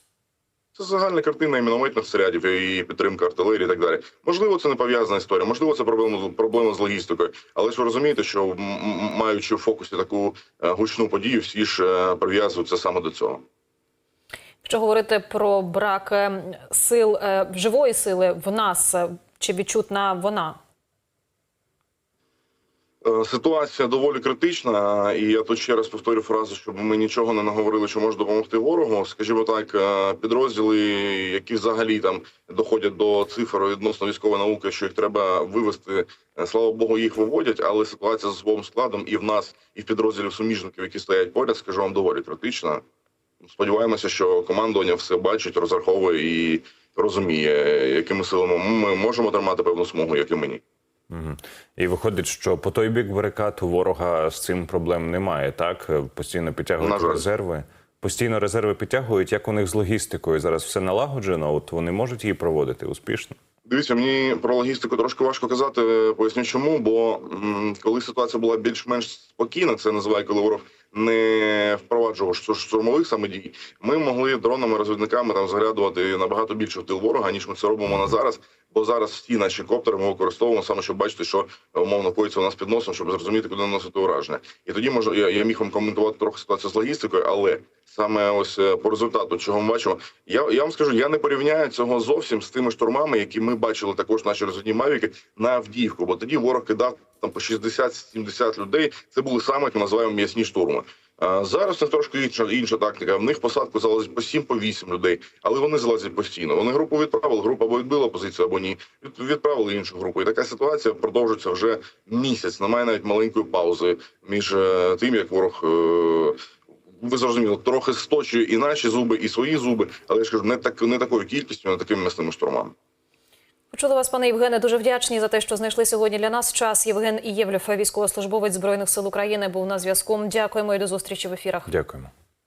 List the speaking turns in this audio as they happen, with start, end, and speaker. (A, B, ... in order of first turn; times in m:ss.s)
0:00.8-0:13.4 A
0:14.6-0:20.6 B
0:23.0-0:42.8 A
0:43.4-0:50.6 A
0:51.1-1:03.4 C
0:56.8-0:57.2 A
1:03.7-1:56.4 A
1:57.0-2:02.7 A
2:03.7-2:11.7 B
2:11.7-2:12.1 C